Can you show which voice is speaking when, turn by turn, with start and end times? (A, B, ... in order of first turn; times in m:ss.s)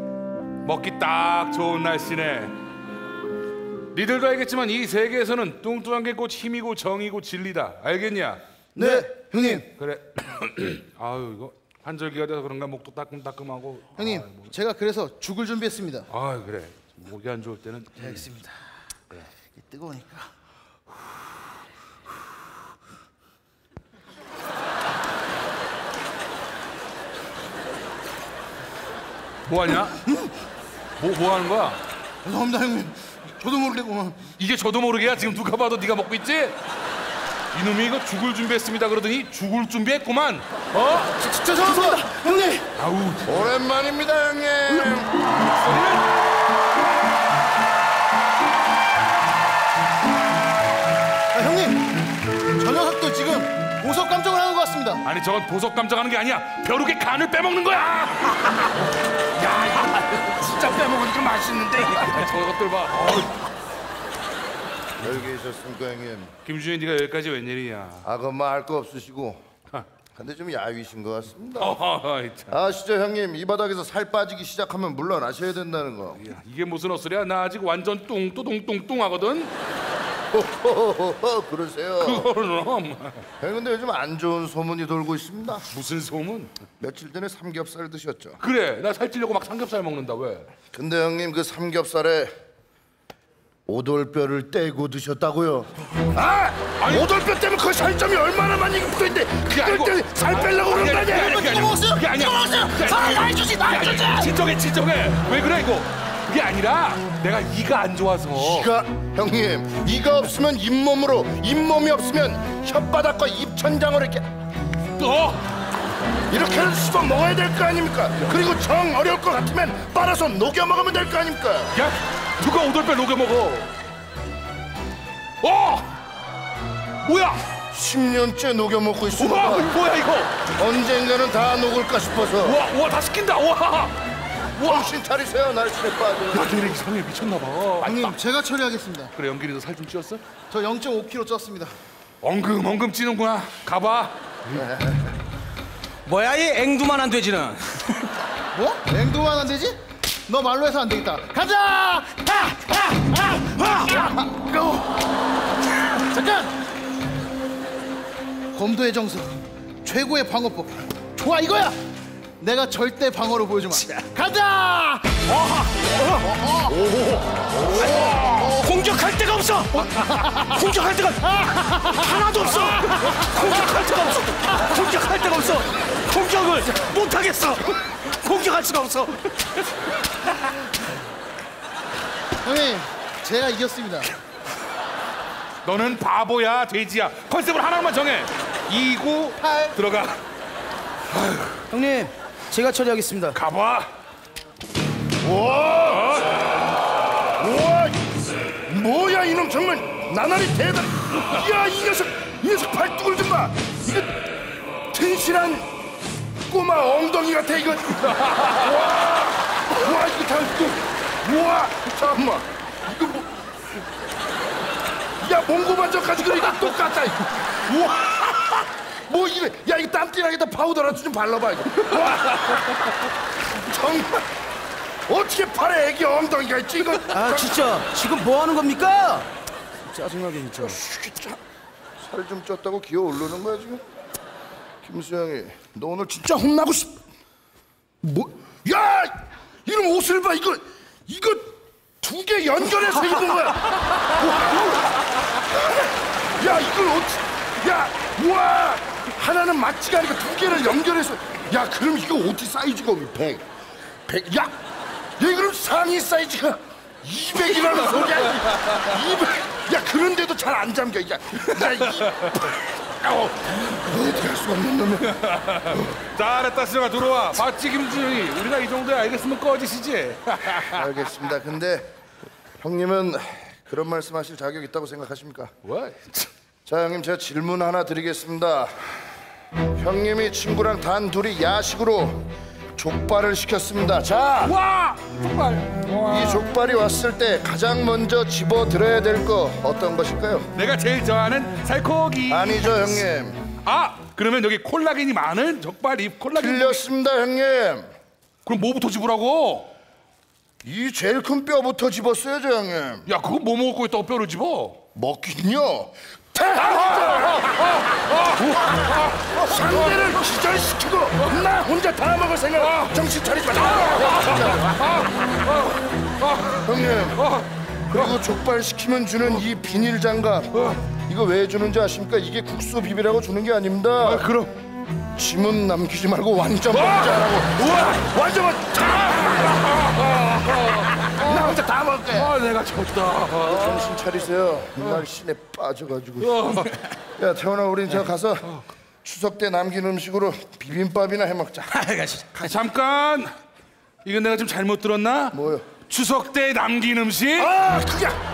0:00.6-0:02.6 A
0:03.9-0:08.4 A
0:08.7-0:09.6 B
0:09.3-0:14.5 A
0:14.0-0:16.1 B
0:16.1-0:18.3 A
0:18.0-0:18.5 B
0:19.6-0:20.3 B
0:29.4-0:30.1 A
0:31.0-0:31.8 A
0:32.2-0:34.2 B
0:34.2-0:36.6 A
0:37.5-0:41.3 A
0:41.2-0:42.6 B
0:42.7-0:43.4 A
0:43.2-0:45.1 C
0:45.4-0:46.0 A
0:51.3-0:52.0 B
0:52.5-0:55.0 B
0:55.0-1:03.5 A
1:05.0-1:06.3 C
1:06.4-1:08.1 A
1:08.0-1:09.4 C
1:10.1-1:11.8 C
1:11.6-1:12.6 A
1:12.5-1:16.2 C
1:16.1-1:19.5 A
1:20.3-1:22.3 C
1:22.0-1:23.2 A
1:23.4-1:25.6 C
1:25.7-1:26.5 A
1:26.8-1:28.4 C
1:28.4-1:30.5 A
1:30.7-1:32.3 C
1:33.7-1:41.3 C
1:36.6-1:37.3 A
1:39.4-1:48.7 A
1:40.5-1:44.3 B
1:48.3-1:54.2 C
1:55.0-1:55.4 A
1:56.3-2:01.8 C
2:01.7-2:03.7 A
2:05.4-2:05.9 A
2:07.0-2:07.4 A
2:07.7-2:09.7 C
2:09.1-2:10.5 A
2:10.6-2:12.6 C
2:12.4-2:13.9 A
2:14.5-2:14.9 A
2:14.6-2:16.8 C
2:16.3-2:18.2 A
2:17.8-2:19.1 B
2:19.1-2:20.2 A
2:20.5-2:21.7 B
2:22.2-2:24.6 A
2:24.5-2:25.0 C
2:26.0-2:28.1 D
2:28.5-2:35.0 B
2:35.9-2:36.5 B
2:38.5-2:41.8 B
2:42.4-2:45.2 B
2:46.4-2:46.7 B
2:46.7-2:48.5 A
2:47.8-2:59.5 D
2:52.7-2:53.1 B
2:54.0-2:54.6 B
3:02.4-3:04.1 B
3:05.6-3:10.2 A
3:09.4-3:09.8 B
3:11.1-3:11.6 A
3:11.7-3:13.4 D
3:13.3-3:13.9 A
3:15.2-3:16.2 C
3:15.9-3:16.3 A
3:17.4-3:18.0 C
3:18.6-3:24.2 C
3:24.9-3:25.7 C
3:26.4-3:33.3 C
3:28.3-3:28.7 A
3:35.2-3:42.7 C
3:42.2-3:42.5 A
3:43.5-3:44.2 C
3:45.1-3:47.7 C
3:47.1-3:49.3 D
3:49.8-3:50.8 D
3:50.6-3:51.4 C
3:52.0-3:53.8 C
3:54.8-3:57.0 C
3:58.0-4:01.5 C
4:02.0-4:04.8 C
4:06.3-4:13.4 C
4:14.1-4:14.6 C
4:15.2-4:25.2 C
4:18.5-4:18.8 A
4:21.4-4:22.5 A
4:25.0-4:31.0 A
4:30.6-4:31.9 C
4:32.6-4:35.5 C
4:35.6-4:36.3 A
4:36.6-4:39.0 C
4:39.7-4:44.5 C
4:44.4-4:46.5 A
4:46.1-4:50.5 C
4:50.5-4:53.0 A
4:52.3-4:53.4 C
4:53.6-4:56.8 A
4:56.3-4:57.9 C
4:58.4-4:59.7 A
5:00.6-5:03.1 C
5:03.0-5:04.8 A
5:04.9-5:07.5 C
5:06.6-5:10.3 A
5:09.3-5:14.7 C
5:11.2-5:11.5 A
5:12.6-5:18.2 A
5:16.6-5:17.2 C
5:17.9-5:24.3 C
5:20.5-5:20.9 A
5:24.0-5:24.5 A
5:25.2-5:29.5 C
5:26.7-5:34.1 A
5:31.2-5:32.2 C
5:33.4-5:36.5 C
5:34.8-5:35.0 A
5:36.2-5:37.0 A
5:37.2-5:41.8 C
5:41.8-5:42.3 D
5:42.2-5:43.3 A
5:44.0-5:47.5 A
5:45.3-5:45.6 C
5:47.4-5:48.2 C